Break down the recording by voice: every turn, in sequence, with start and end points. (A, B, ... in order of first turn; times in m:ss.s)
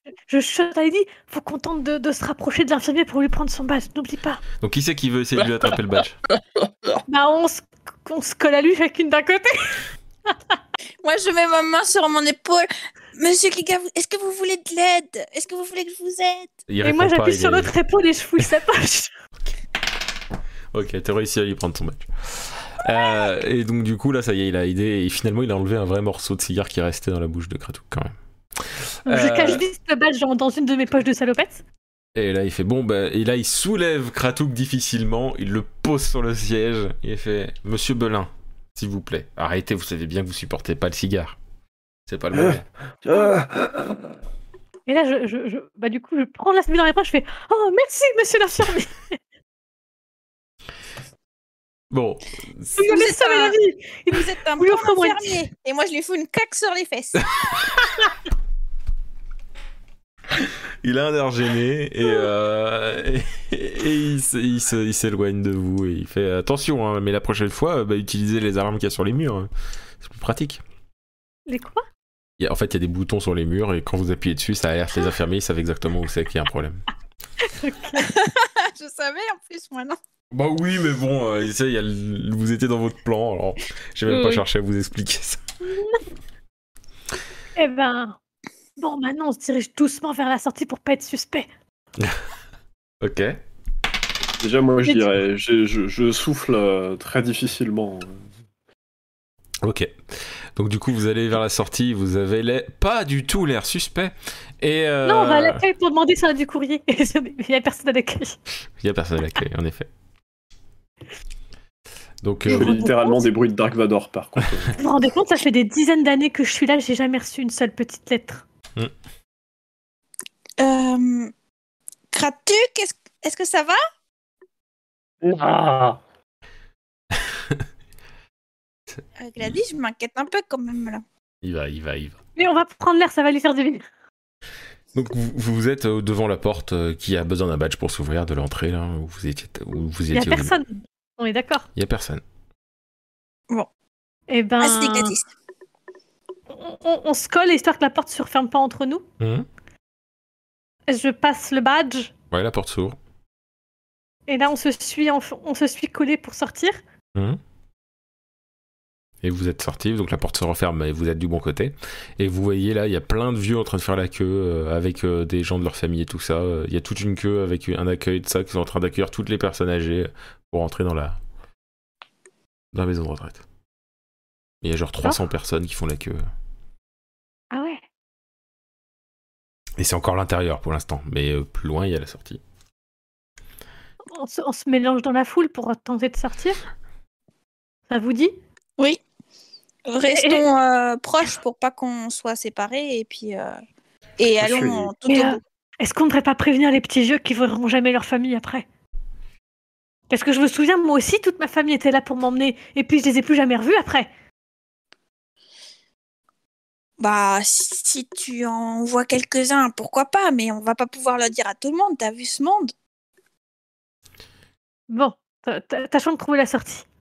0:00.3-0:04.4 A
0:04.6-0:06.2 B
0:06.6-0:07.0 C
0:07.1-0:10.6 A
0:11.0-0:16.6 D
0:16.7-0:17.7 B
0:16.8-0:19.1 A
0:20.7-0:29.6 B
0:29.1-0:31.6 A
0:32.1-0:41.4 B
0:42.1-0:42.7 B
0:43.0-0:44.0 C
0:44.9-0:49.2 A
0:51.9-0:52.8 B
0:52.8-0:55.4 A
0:52.8-0:53.6 D
0:54.1-0:57.3 D
1:00.8-1:09.5 B
1:10.0-1:10.6 B
1:11.5-1:11.8 A
1:12.4-1:16.8 B
1:17.4-1:18.1 A
1:18.0-1:20.0 D
1:20.3-1:25.4 B
1:25.6-1:26.0 A
1:27.6-1:28.2 A
1:28.8-1:31.5 A
1:33.0-1:33.4 B
1:34.4-1:38.3 C
1:39.6-1:45.6 B
1:45.0-1:48.4 A
1:48.8-1:49.9 B
1:52.2-1:52.8 B
1:52.5-1:53.3 A
1:52.5-1:54.8 C
1:54.8-1:58.4 A
2:00.6-2:01.3 D
2:02.1-2:03.8 D
2:05.2-2:06.0 C
2:07.2-2:07.6 B
2:09.2-2:11.0 D
2:11.4-2:12.2 B
2:12.4-2:13.9 A
2:14.9-2:20.6 B
2:20.1-2:21.7 A
2:21.8-2:22.2 B
2:24.3-2:25.1 A
2:24.6-2:25.2 D
2:26.5-2:29.0 A
2:29.2-2:29.4 B
2:30.9-2:32.1 A
2:32.3-2:33.0 B
2:34.3-2:36.8 A
2:39.2-2:51.2 B
2:52.7-2:53.4 B
2:54.6-2:56.2 B
2:57.5-2:57.8 A
2:59.8-3:02.4 B
3:04.1-3:06.6 A
3:07.9-3:08.4 A
3:09.9-3:13.6 D
3:10.1-3:10.4 A
3:14.2-3:15.4 D
3:14.4-3:14.9 C
3:15.1-3:18.6 A
3:20.1-3:24.1 A
3:27.0-3:32.7 D
3:34.9-3:36.8 A